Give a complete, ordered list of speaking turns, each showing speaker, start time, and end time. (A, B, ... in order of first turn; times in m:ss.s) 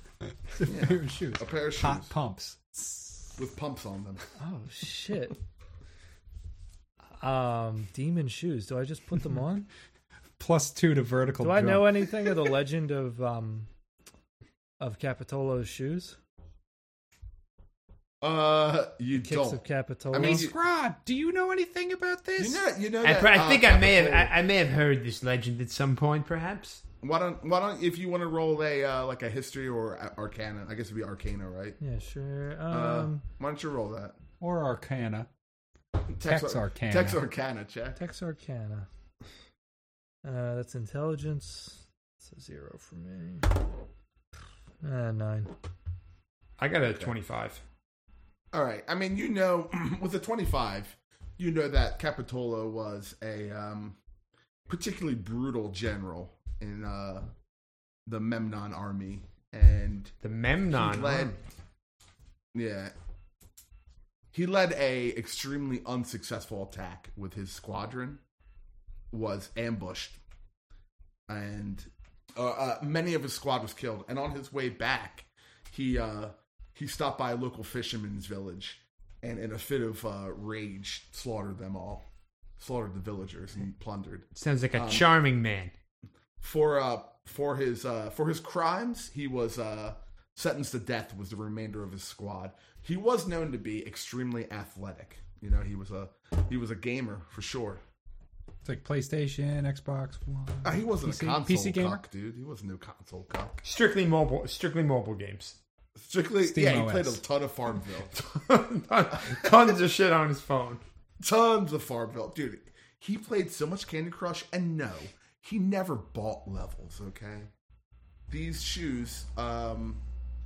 0:00.6-0:03.3 A
0:00.6-0:02.1 B
0:03.4-0:04.2 B
0:04.4-0:05.4 C
0:07.2-0:09.7 C
0:10.4-0:12.1 A
0:11.4-0:13.7 C
0:14.8-0:16.2 C
0:18.2-0:20.6 B
0:19.1-0:20.5 C
0:20.1-0:22.6 D
0:22.4-0:24.3 B
0:23.0-0:26.8 E
0:27.0-0:31.8 B
0:31.8-0:33.2 C
0:32.7-0:34.2 B
0:34.4-0:35.3 A
0:36.1-0:38.0 B
0:36.2-0:37.2 A
0:37.9-0:38.9 C
0:40.2-0:43.5 C
0:44.8-0:45.5 C
0:46.6-0:47.6 E
0:46.8-0:47.1 B
0:48.5-0:54.0 B
0:54.7-0:57.3 B
0:58.0-1:00.1 B
1:00.2-1:01.3 E
1:00.7-1:01.4 B
1:02.5-1:02.9 B
1:04.3-1:08.2 B
1:09.1-1:10.2 B
1:11.3-1:22.0 B
1:22.6-1:25.1 B
1:24.4-1:25.7 E
1:26.4-1:37.8 B
1:38.6-1:42.0 A
1:40.6-1:43.6 B
1:43.6-1:45.6 E
1:46.0-1:48.2 B
1:46.4-1:47.2 A
1:48.1-1:50.8 E
1:51.2-1:57.5 B
1:58.3-2:00.0 B